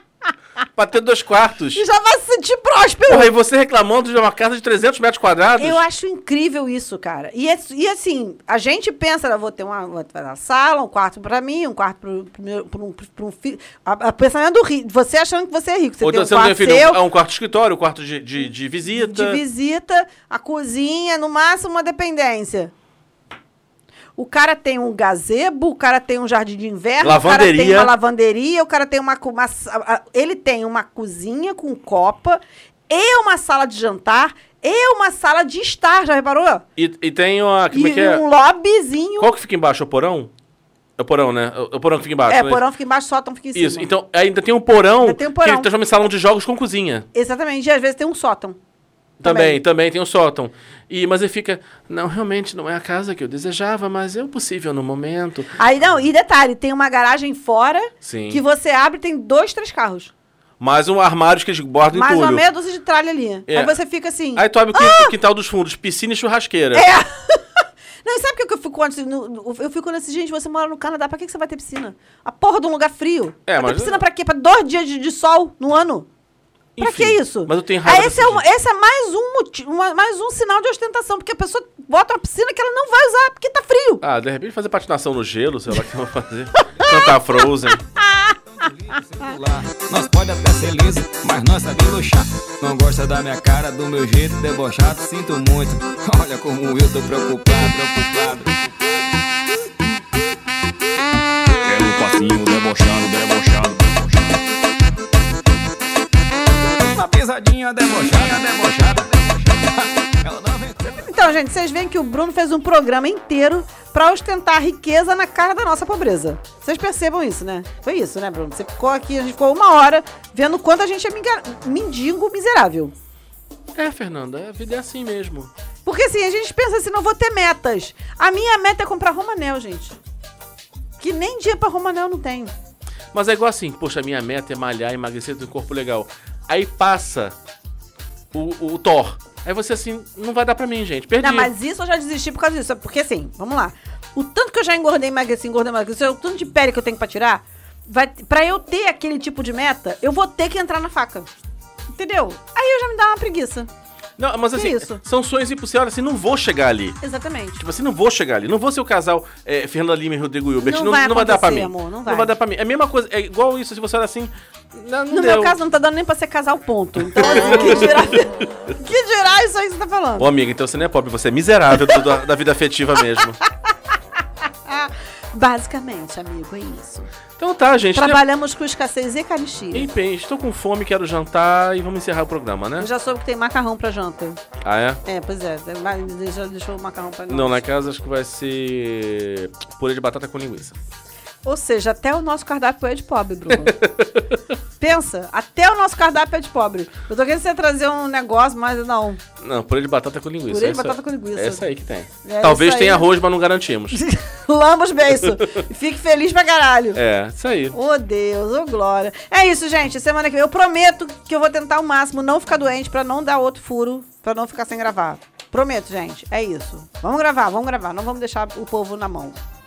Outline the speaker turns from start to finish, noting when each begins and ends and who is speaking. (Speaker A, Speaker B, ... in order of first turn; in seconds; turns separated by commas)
Speaker A: 0.8-1.8, Speaker B: 1.7-3.3, Speaker A: 3.1-5.8, Speaker B: 5.6-17.0, Speaker A: 16.0-19.4, Speaker B: 18.9-22.7, Speaker B: 24.2-36.6, Speaker A: 27.0-27.9, Speaker A: 36.8-38.2, Speaker B: 37.7-39.3, Speaker A: 39.2-40.3, Speaker A: 41.0-42.6, Speaker B: 42.3-43.9, Speaker A: 43.5-47.1, Speaker B: 45.0-45.7, Speaker B: 47.1-48.6, Speaker A: 49.2-55.5, Speaker B: 49.2-49.6, Speaker B: 55.6-60.1, Speaker A: 58.0-58.4, Speaker A: 60.6-62.5, Speaker B: 61.9-65.1, Speaker A: 63.5-63.7, Speaker A: 64.3-66.9, Speaker B: 66.7-76.1, Speaker A: 73.5-74.0, Speaker A: 76.8-78.4, Speaker B: 76.8-84.0, Speaker A: 84.0-87.8, Speaker B: 86.8-87.1, Speaker B: 88.0-88.4, Speaker C: 88.5-99.0, Speaker C: 101.7-104.4, Speaker C: 106.6-111.1, Speaker B: 110.9-122.9, Speaker A: 123.7-125.5, Speaker B: 125.8-129.9, Speaker B: 131.0-132.5, Speaker A: 133.1-137.3, Speaker A: 138.3-141.5, Speaker B: 141.2-151.3, Speaker B: 151.9-153.7, Speaker A: 154.2-157.0, Speaker B: 154.5-155.0, Speaker B: 157.0-157.6, Speaker A: 157.6-165.6, Speaker B: 160.6-162.3, Speaker B: 165.1-170.3, Speaker A: 167.0-168.4, Speaker A: 170.2-173.4, Speaker B: 174.7-177.1, Speaker A: 177.4-178.2, Speaker B: 177.9-179.9, Speaker A: 179.7-182.9, Speaker B: 182.8-184.4, Speaker A: 184.6-185.0, Speaker B: 185.1-187.6, Speaker A: 187.3-190.8, Speaker B: 191.4-193.8, Speaker A: 193.5-194.2, Speaker B: 194.8-199.2, Speaker A: 199.4-204.0, Speaker B: 200.5-201.7, Speaker B: 202.2-203.1, Speaker B: 203.9-207.0, Speaker A: 205.1-205.6, Speaker A: 206.9-207.7, Speaker B: 207.7-219.4